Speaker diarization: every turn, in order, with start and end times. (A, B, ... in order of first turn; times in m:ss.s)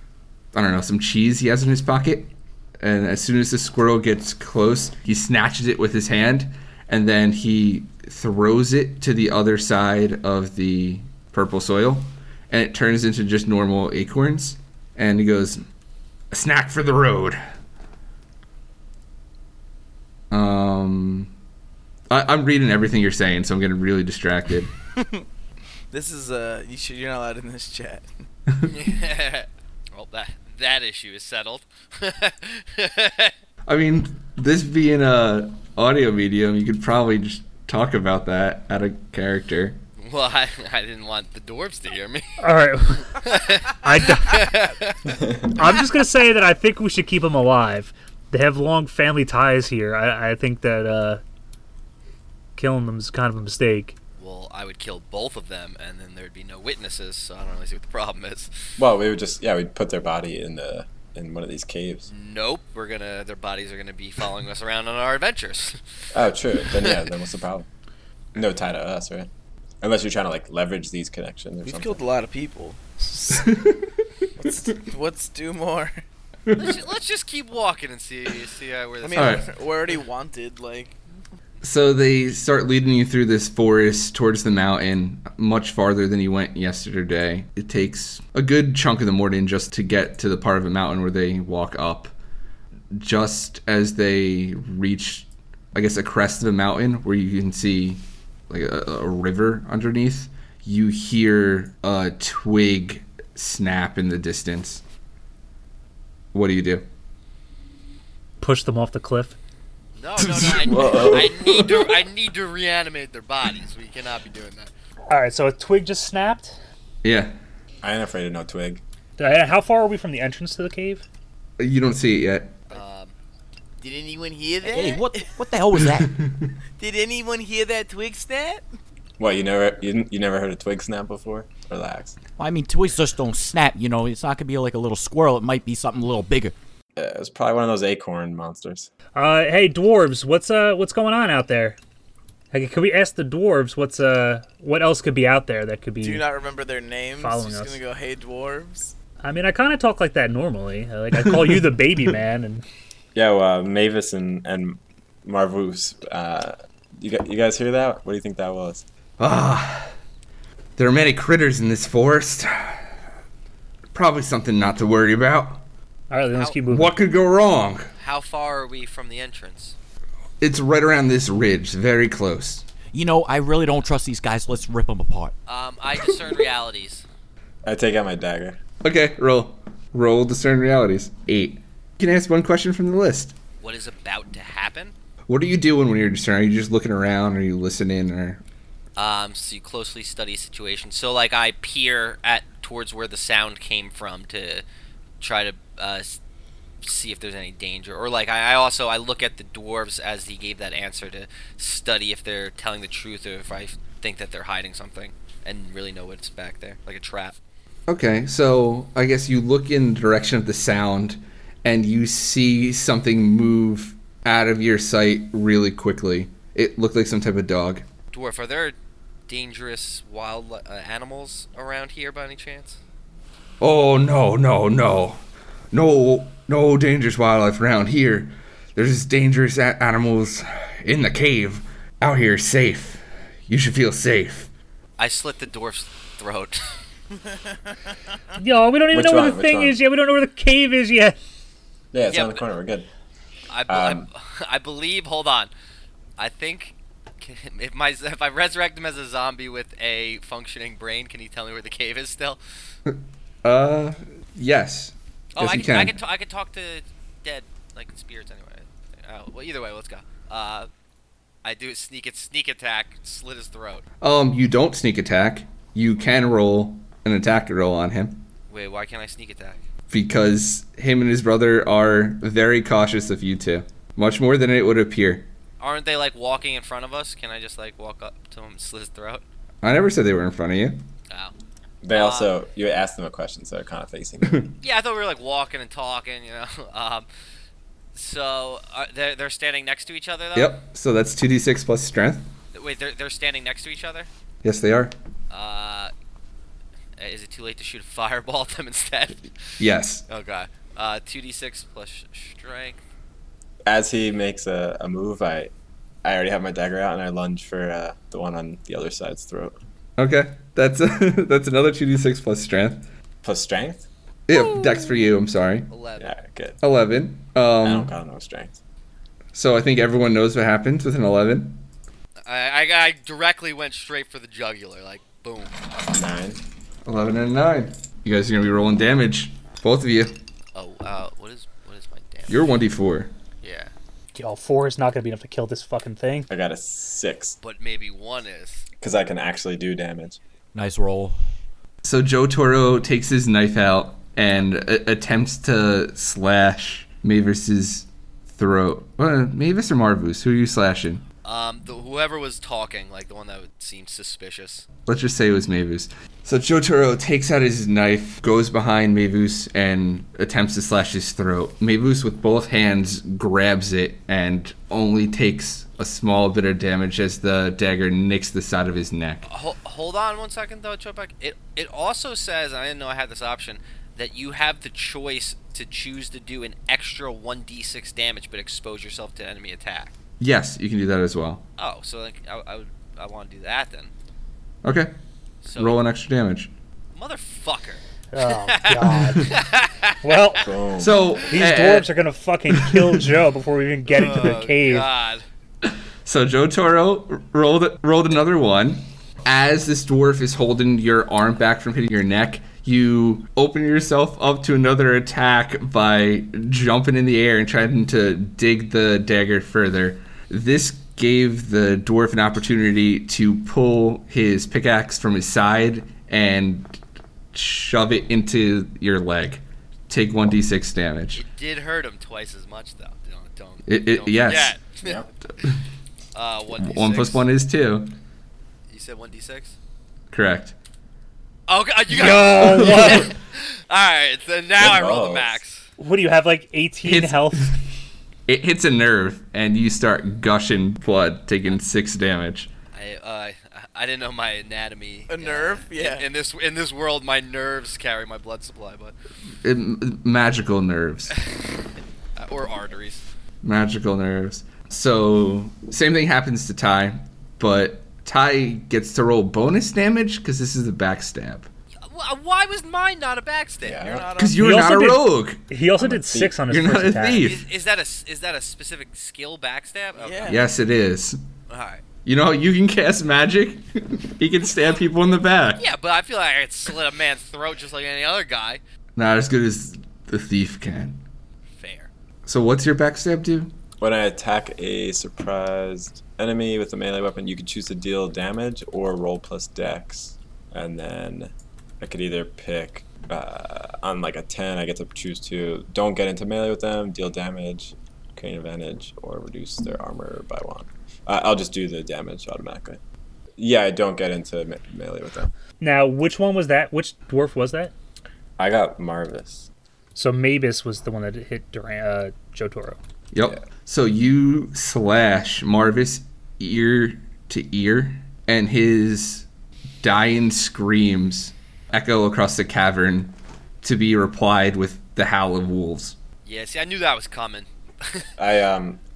0:00.5-0:15.6 A
0:16.3-0:17.4 A
0:20.3-0:21.3 A
0:22.1-0:24.7 A
0:25.0-0:25.2 B
0:25.9-0:28.2 B
0:28.6-0:33.3 C
0:33.7-0:39.8 A
0:40.0-0:42.4 C
0:42.4-0:43.2 D
0:43.0-0:45.1 C
0:43.8-0:44.6 D
0:45.5-0:51.2 D
0:52.6-0:54.0 D
0:54.2-0:58.5 C
0:58.8-1:02.1 E
1:02.1-1:05.8 C
1:06.1-1:07.7 E
1:06.6-1:07.1 C
1:08.4-1:09.3 E
1:09.8-1:12.0 E
1:11.6-1:13.6 B
1:13.4-1:13.8 A
1:14.4-1:16.0 B
1:16.5-1:16.8 A
1:16.5-1:19.5 C
1:19.0-1:21.0 B
1:19.2-1:19.5 A
1:21.6-1:32.1 A
1:32.9-1:44.8 A
1:46.3-1:46.9 A
1:48.4-1:49.4 D
1:50.0-1:54.7 C
1:50.4-1:51.5 E
1:50.6-1:51.5 A
1:55.1-1:56.6 D
1:57.0-1:57.4 A
1:57.8-1:58.8 E
1:59.2-2:01.0 D
2:01.6-2:02.6 A
2:02.7-2:03.1 C
2:03.8-2:05.4 B
2:04.6-2:06.2 F
2:06.8-2:08.6 B
2:09.2-2:12.2 E
2:12.4-2:16.5 F
2:17.0-2:18.9 E
2:19.2-2:21.8 D
2:22.5-2:26.2 D
2:26.0-2:29.0 B
2:27.2-2:27.8 D
2:29.2-2:32.6 D
2:33.2-2:38.8 E
2:39.2-2:39.9 A
2:40.8-2:42.9 A
2:43.9-2:45.6 A
2:46.1-2:46.9 D
2:46.7-2:47.9 A
2:48.0-2:49.8 C
2:50.4-2:52.7 A
2:52.9-2:55.3 F
2:55.5-2:57.0 C
2:57.6-2:58.6 E
2:58.8-3:03.4 A
3:03.6-3:05.0 C
3:05.3-3:08.4 A
3:09.0-3:14.6 C
3:15.2-3:16.2 C
3:16.8-3:27.4 C
3:27.9-3:37.8 A
3:38.1-3:38.8 C
3:39.3-3:42.8 C
3:43.6-3:45.2 A
3:45.7-3:54.5 A
3:55.0-3:56.7 C
3:57.1-3:57.9 B
3:58.4-4:01.2 D
3:58.9-3:59.8 E
4:01.9-4:02.9 E
4:02.1-4:02.4 C
4:03.5-4:05.5 C
4:03.7-4:04.0 E
4:06.2-4:12.4 C
4:12.9-4:16.0 A
4:15.4-4:20.7 C
4:21.4-4:23.8 C
4:24.0-4:28.2 A
4:28.5-4:29.6 C
4:29.9-4:35.3 A
4:35.6-4:39.2 C
4:39.6-4:40.8 A
4:41.8-4:44.5 E
4:41.9-4:42.3 C
4:44.6-4:47.1 C
4:47.9-4:50.6 C
4:50.3-4:52.3 A
4:52.5-4:54.1 C
4:54.4-4:55.0 A
4:55.3-4:55.9 C
4:57.0-4:59.3 C
4:59.6-5:00.0 A
5:00.1-5:02.8 C
5:03.7-5:05.5 E
5:06.0-5:09.6 E
5:10.0-5:12.9 A
5:13.2-5:13.9 E
5:14.3-5:15.7 A
5:15.7-5:16.2 C
5:16.0-5:16.6 E
5:16.6-5:17.9 A
5:17.6-5:18.6 E
5:19.3-5:21.6 A
5:22.2-5:25.6 C
5:25.9-5:26.4 E
5:26.9-5:30.1 A
5:30.6-5:32.4 C
5:32.3-5:33.1 A
5:33.4-5:33.7 C
5:34.2-5:36.3 D
5:36.3-5:37.4 E
5:37.4-5:38.7 C
5:38.8-5:40.2 E
5:40.6-5:41.2 F
5:41.8-5:51.0 A
5:51.2-5:54.7 C
5:54.9-6:09.3 A
6:09.3-6:19.9 C
6:20.2-6:21.4 A
6:21.6-6:23.9 C
6:24.6-6:24.9 A
6:25.4-6:25.8 C
6:25.6-6:26.5 A
6:27.0-6:30.4 C
6:28.1-6:29.4 D
6:30.0-6:30.5 D
6:30.4-6:30.9 E
6:30.8-6:31.9 A
6:31.3-6:34.9 D
6:32.5-6:33.0 A
6:33.9-6:35.3 C
6:35.6-6:56.8 A
6:57.3-7:01.2 A
7:01.2-7:05.0 C
7:03.7-7:04.6 A
7:04.8-7:05.1 E
7:06.1-7:07.2 C
7:06.6-7:07.9 A
7:08.7-7:09.6 C
7:10.1-7:10.6 A
7:11.5-7:15.6 C
7:12.0-7:13.1 D
7:12.0-7:13.1 A
7:14.6-7:15.4 E
7:15.8-7:17.6 D
7:16.8-7:17.5 A
7:18.3-7:22.5 A
7:22.7-7:29.0 C
7:25.1-7:26.1 B
7:29.4-7:31.1 A
7:31.2-7:33.0 C
7:33.4-7:41.5 A
7:41.8-7:44.0 C
7:43.6-7:44.1 E
7:43.8-7:44.4 B
7:44.2-7:45.4 A
7:44.4-7:47.3 D
7:45.8-7:46.3 E
7:46.5-7:47.4 A
7:47.2-7:50.4 C
7:50.0-7:50.4 B
7:50.3-7:51.2 A
7:51.5-7:51.8 C
7:52.1-7:55.7 A
7:55.6-7:58.6 C
7:59.0-8:01.0 A
8:01.5-8:01.9 C
8:02.3-8:03.5 A
8:03.8-8:22.8 E
8:23.4-8:25.3 E
8:25.6-8:27.7 D
8:28.4-8:29.5 E
8:30.0-8:32.8 D
8:33.1-8:39.3 A
8:39.8-8:46.0 A
8:46.2-8:48.1 C
8:48.2-8:48.8 E